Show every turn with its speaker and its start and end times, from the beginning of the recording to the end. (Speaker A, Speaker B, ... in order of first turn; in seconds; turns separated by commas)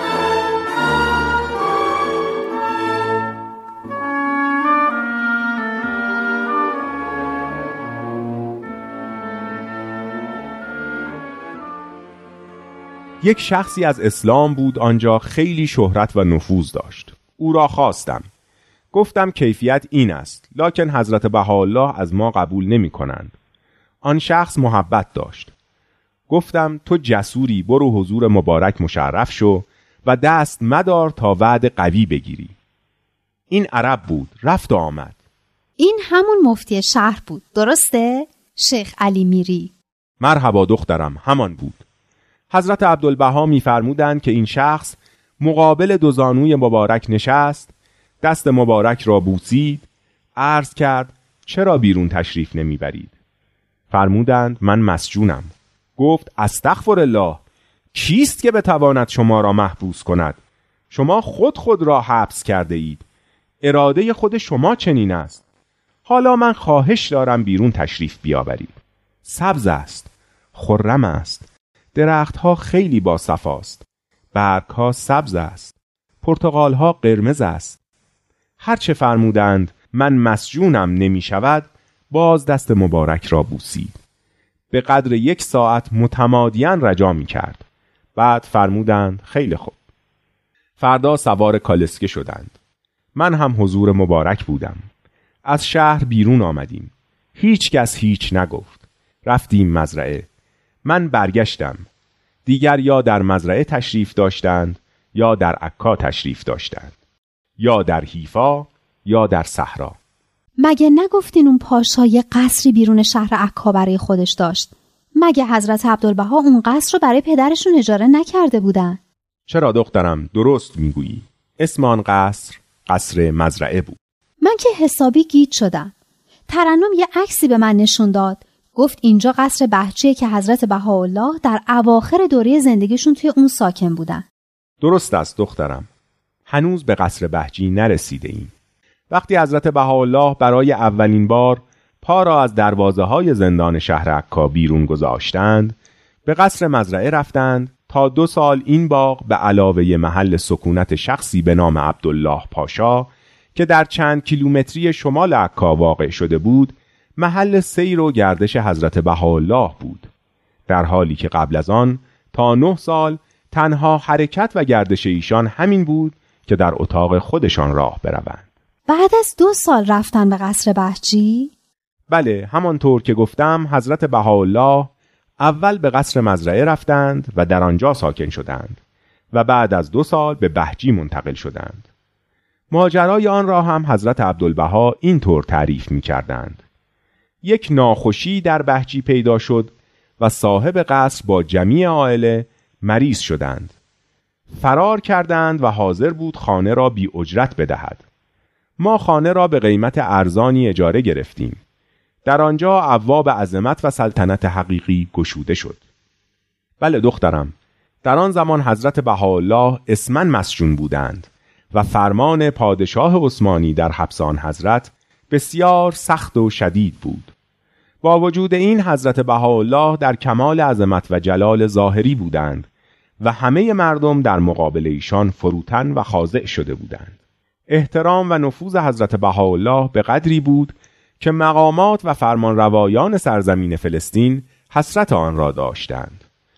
Speaker A: 13.2-18.3, Speaker A: 18.9-23.4, Speaker A: 24.0-25.5, Speaker A: 26.3-32.5, Speaker A: 33.5-35.2, Speaker B: 35.8-39.7, Speaker A: 40.2-41.8, Speaker A: 42.5-53.1, Speaker A: 53.9-57.4, Speaker A: 57.9-60.4, Speaker A: 60.9-63.0, Speaker A: 63.6-65.4, Speaker A: 66.1-77.8, Speaker A: 78.6-84.0, Speaker A: 84.7-87.7, Speaker A: 88.2-89.8, Speaker A: 90.8-92.5, Speaker A: 93.2-94.8, Speaker A: 95.5-100.3, Speaker A: 100.8-101.9, Speaker A: 102.5-107.0, Speaker A: 107.6-110.0, Speaker B: 110.6-119.0, Speaker A: 119.5-124.0, Speaker B: 124.4-125.9, Speaker B: 126.5-134.3, Speaker A: 134.8-135.9, Speaker A: 136.5-138.5, Speaker A: 139.1-160.1, Speaker A: 160.7-168.5, Speaker B: 168.9-171.5, Speaker A: 172.1-178.8, Speaker A: 179.3-181.9, Speaker A: 182.7-186.6, Speaker A: 187.4-193.8, Speaker A: 194.5-198.0, Speaker A: 198.8-201.6, Speaker A: 202.2-205.8, Speaker A: 206.8-217.3, Speaker A: 218.0-222.7, Speaker A: 223.2-227.2, Speaker A: 227.7-236.2